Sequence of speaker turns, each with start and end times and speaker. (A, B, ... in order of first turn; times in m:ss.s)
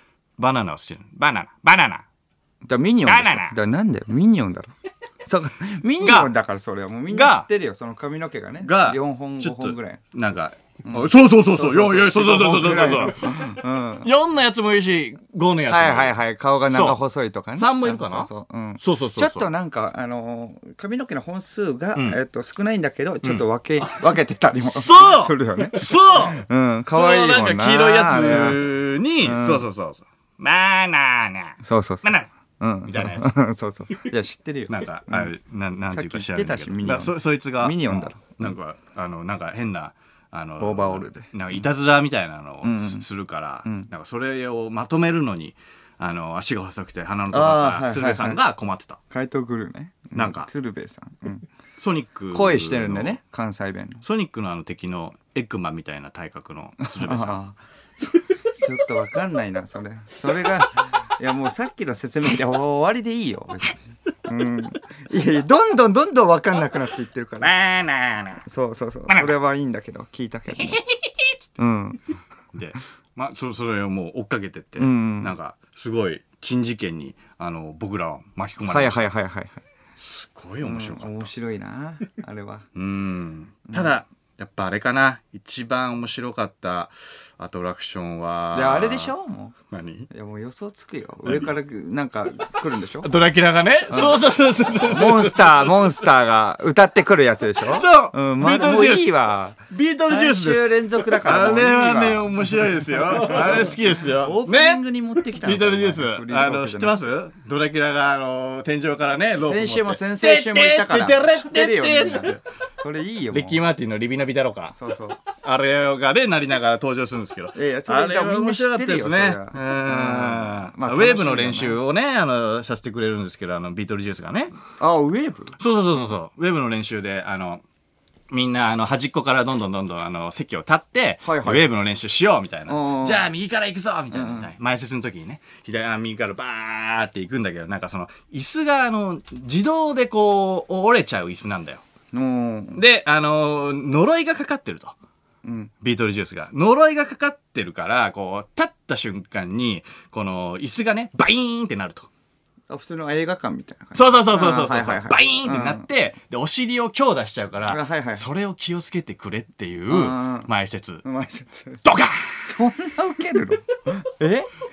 0:00.4-0:02.0 A
0:02.6-0:04.7 B
0:03.0-0:03.6 A
0:05.2-0:10.0 B
0:06.0-0:06.3 A
0:07.1-0:07.5 A
0:08.6-0:16.1 A
0:10.8-0:14.1 B
0:15.7-0:28.6 B
0:16.7-0:17.0 A
0:17.6-0:19.5 A
0:24.6-0:32.3 A
0:29.2-0:29.6 B
0:31.6-0:35.3 B
0:32.8-0:33.3 A
0:34.7-0:49.0 A
0:35.9-0:38.5 B
0:40.6-0:41.3 B
0:42.6-0:43.0 B
0:47.3-0:48.4 B
0:49.1-0:51.5 B
0:50.1-0:50.5 A
0:51.8-0:53.2 A
0:52.3-0:54.0 B
0:54.0-0:57.4 A
0:56.8-1:07.5 B
1:07.4-1:08.4 A
1:08.4-1:10.8 B
1:10.9-1:11.3 A
1:11.6-1:12.0 B
1:12.5-1:19.0 A
1:14.8-1:15.3 B
1:18.6-1:19.6 B
1:20.0-1:21.3 A
1:20.6-1:22.7 B
1:22.7-1:29.1 A
1:28.5-1:29.6 B
1:29.7-1:30.1 A
1:30.1-1:33.1 B
1:33.0-1:35.8 A
1:33.9-1:34.2 B
1:34.8-1:42.2 B
1:37.6-1:39.1 A
1:39.7-1:44.8 A
1:43.2-1:47.0 B
1:45.4-1:52.4 A
1:49.4-1:53.6 B
1:53.3-2:04.5 A
1:54.7-1:55.2 B
1:57.5-2:01.8 B
2:04.8-2:05.6 B
2:05.6-2:07.6 A
2:08.3-2:21.8 A
2:11.2-2:11.7 B
2:12.7-2:13.3 B
2:14.1-2:14.5 B
2:22.1-2:22.8 B
2:22.7-2:25.0 A
2:25.4-2:25.7 B
2:25.8-2:32.1 A
2:32.7-2:35.8 B
2:33.9-2:41.0 A
2:37.7-2:38.2 B
2:39.9-2:40.5 B
2:41.0-2:41.8 B
2:41.8-2:42.5 A
2:42.4-2:44.5 B